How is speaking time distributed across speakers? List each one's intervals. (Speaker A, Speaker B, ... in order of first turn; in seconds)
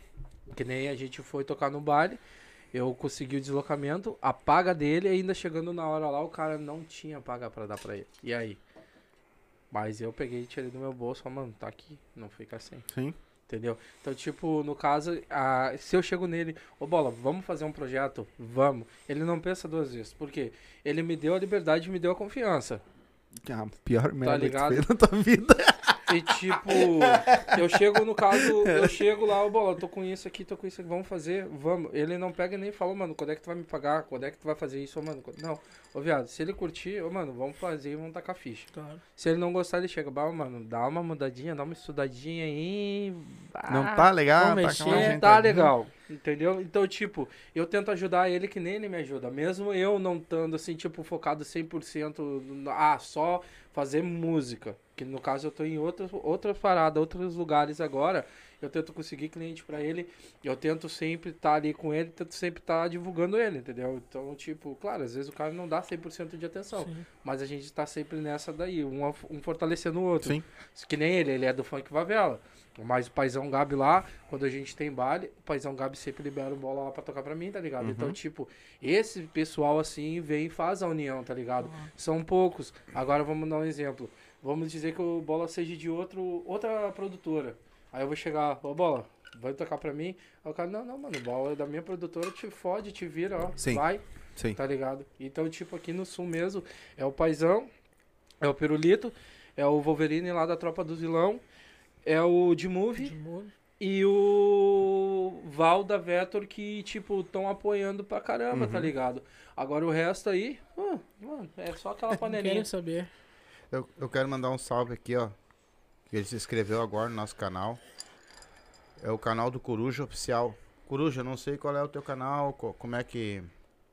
Speaker A: 0.5-2.2, 2.7-8.6, 9.7-12.8, 13.5-22.8, 24.2-24.8, 26.1-44.1, 44.9-94.0, 94.5-97.7, 98.4-101.4, 102.0-103.2, 103.8-112.7
Speaker B: 12.9-13.2, 23.4-27.6, 28.3-29.0, 43.7-45.7, 77.8-78.2, 93.6-93.8, 108.5-108.9
Speaker C: 38.7-39.0, 44.4-45.2, 66.8-67.0, 103.0-103.5, 112.2-113.1
Speaker D: 113.7-115.4, 116.1-117.8, 119.0-123.5